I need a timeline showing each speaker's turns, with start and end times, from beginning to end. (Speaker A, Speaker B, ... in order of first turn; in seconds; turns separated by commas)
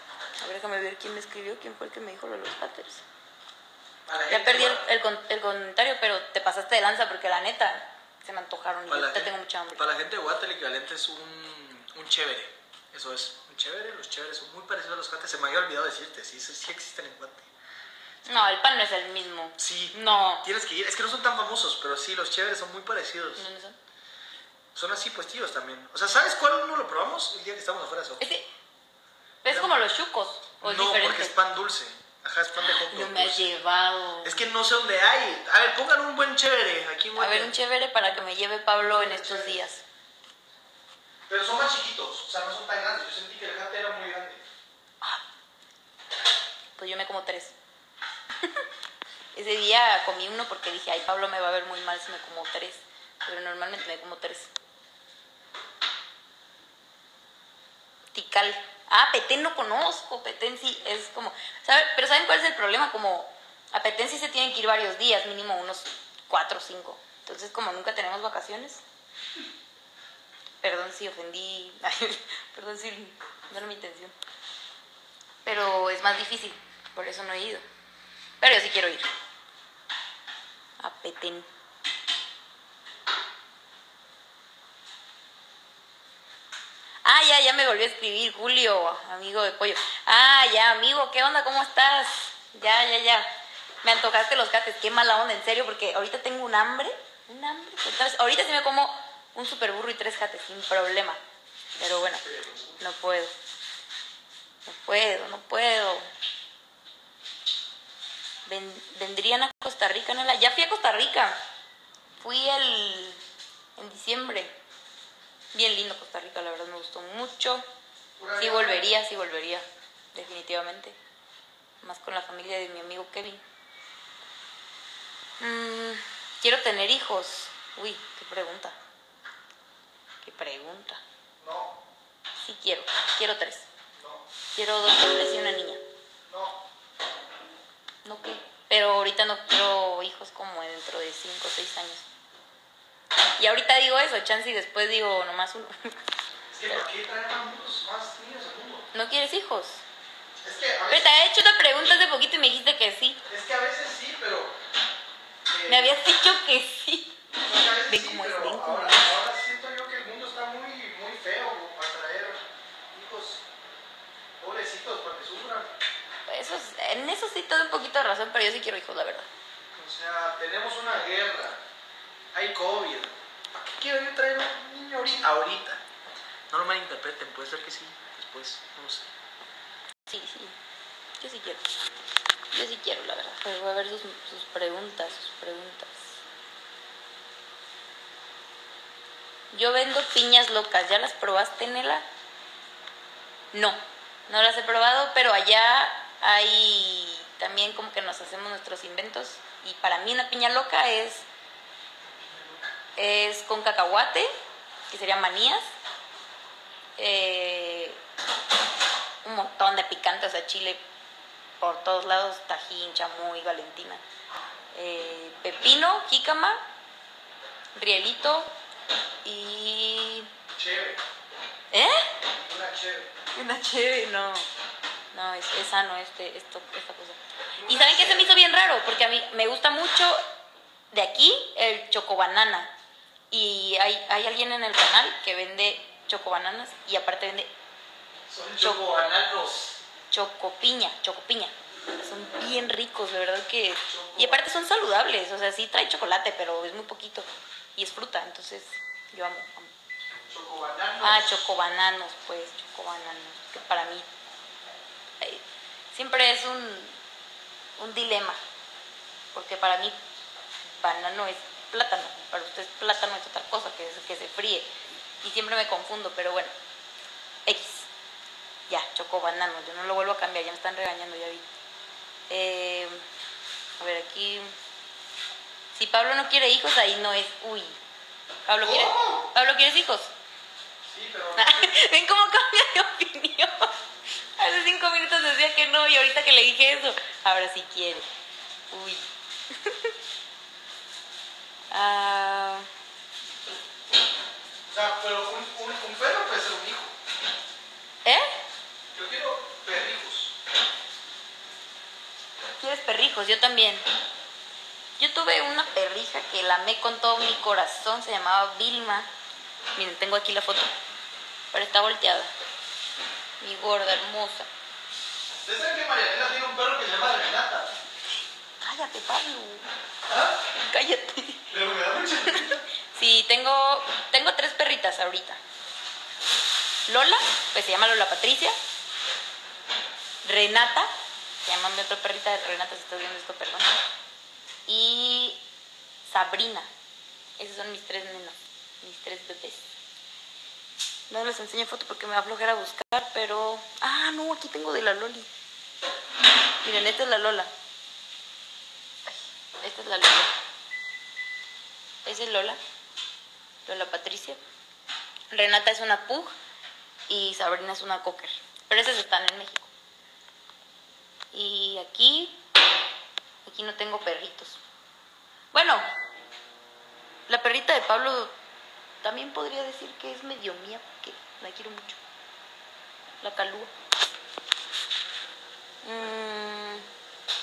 Speaker A: 0.4-3.0, Speaker B: 4.1-4.7, Speaker C: 4.1-4.7, Speaker A: 4.3-9.8, Speaker C: 8.9-17.4, Speaker A: 18.2-20.5, Speaker B: 19.6-19.9, Speaker B: 20.4-23.4, Speaker C: 23.1-23.3, Speaker A: 23.4-23.8, Speaker C: 24.8-28.2, Speaker B: 25.9-27.1, Speaker A: 28.2-28.5, Speaker A: 29.4-31.4, Speaker C: 30.6-33.6, Speaker B: 30.7-32.7, Speaker A: 32.7-34.5, Speaker C: 34.2-37.5, Speaker A: 37.1-39.8, Speaker B: 38.9-39.6, Speaker B: 41.3-44.4, Speaker A: 46.8-47.5, Speaker A: 49.3-54.5, Speaker A: 58.1-68.8, Speaker A: 70.6-74.1, Speaker A: 75.4-77.6, Speaker A: 78.4-79.1, Speaker A: 80.8-81.5, Speaker A: 87.0-93.3, Speaker A: 93.8-101.2, Speaker A: 101.8-102.2, Speaker B: 102.2-102.8, Speaker A: 102.8-103.3, Speaker A: 104.7-106.0, Speaker A: 108.5-111.4, Speaker A: 112.2-113.2, Speaker A: 113.8-114.5, Speaker A: 115.5-117.6, Speaker B: 118.2-118.8, Speaker A: 118.3-121.0, Speaker A: 121.8-123.4, Speaker A: 125.4-128.8, Speaker A: 130.2-131.0, Speaker B: 131.4-131.8, Speaker A: 132.4-133.7, Speaker B: 133.9-134.2, Speaker A: 134.5-135.8, Speaker B: 136.2-136.6, Speaker A: 138.0-142.0, Speaker A: 143.4-145.9, Speaker B: 146.5-148.9, Speaker A: 148.9-149.8, Speaker B: 150.4-151.2, Speaker A: 150.9-153.2, Speaker B: 153.3-154.6, Speaker B: 155.4-156.0, Speaker A: 155.7-157.1, Speaker B: 157.3-163.4, Speaker A: 157.9-159.1, Speaker B: 164.4-165.8, Speaker A: 166.3-169.3, Speaker B: 169.7-171.6, Speaker B: 172.3-175.7, Speaker C: 175.4-175.7, Speaker C: 176.5-179.1, Speaker A: 180.1-180.5, Speaker A: 181.2-181.6, Speaker A: 182.5-186.2, Speaker A: 189.5-192.0, Speaker A: 193.5-201.2, Speaker B: 202.2-202.7, Speaker A: 202.9-204.3, Speaker A: 204.9-205.6, Speaker A: 207.0-208.0, Speaker A: 209.2-210.8, Speaker A: 211.6-214.0, Speaker A: 214.7-216.6, Speaker A: 217.7-218.5, Speaker A: 219.2-220.3, Speaker B: 220.6-221.0, Speaker A: 221.7-222.1, Speaker B: 222.4-223.1, Speaker A: 223.3-224.5, Speaker A: 225.1-230.2, Speaker B: 227.5-228.3, Speaker A: 230.9-232.7, Speaker A: 233.3-237.5, Speaker B: 238.3-239.7, Speaker A: 238.6-238.9, Speaker A: 240.1-249.7, Speaker B: 243.9-244.5, Speaker B: 250.3-251.3, Speaker A: 251.0-254.1, Speaker A: 255.2-257.0, Speaker A: 257.8-258.4, Speaker A: 259.3-260.0, Speaker A: 260.8-264.7, Speaker A: 265.2-266.5, Speaker A: 267.4-267.9, Speaker A: 268.7-271.4, Speaker A: 272.3-273.0, Speaker A: 273.8-274.5, Speaker A: 275.7-277.8, Speaker A: 278.4-280.1, Speaker B: 278.6-279.2, Speaker B: 280.9-281.8, Speaker A: 281.4-283.7, Speaker A: 284.4-288.1, Speaker A: 288.7-289.9, Speaker A: 291.7-292.7, Speaker B: 294.7-296.9, Speaker A: 298.0-298.3, Speaker B: 298.9-300.3, Speaker A: 302.6-303.8, Speaker A: 305.0-309.1, Speaker A: 309.8-310.7, Speaker A: 311.5-312.3, Speaker A: 313.4-314.5, Speaker B: 315.4-317.7, Speaker A: 318.6-319.7, Speaker B: 320.1-320.4, Speaker A: 320.7-321.5, Speaker B: 321.5-322.6, Speaker A: 322.3-325.4, Speaker A: 326.9-328.6, Speaker A: 330.2-330.9, Speaker A: 331.4-333.7, Speaker A: 334.7-335.4, Speaker A: 336.1-336.7, Speaker A: 337.4-339.7, Speaker A: 341.1-345.3, Speaker A: 346.6-347.5, Speaker A: 349.1-350.3, Speaker A: 352.0-352.6, Speaker A: 353.6-354.4, Speaker A: 355.3-356.3, Speaker A: 357.1-359.7, Speaker A: 361.3-362.4, Speaker A: 363.4-364.6, Speaker A: 365.5-365.9, Speaker A: 367.3-368.3, Speaker A: 369.0-372.0, Speaker A: 373.2-373.7, Speaker A: 375.8-376.8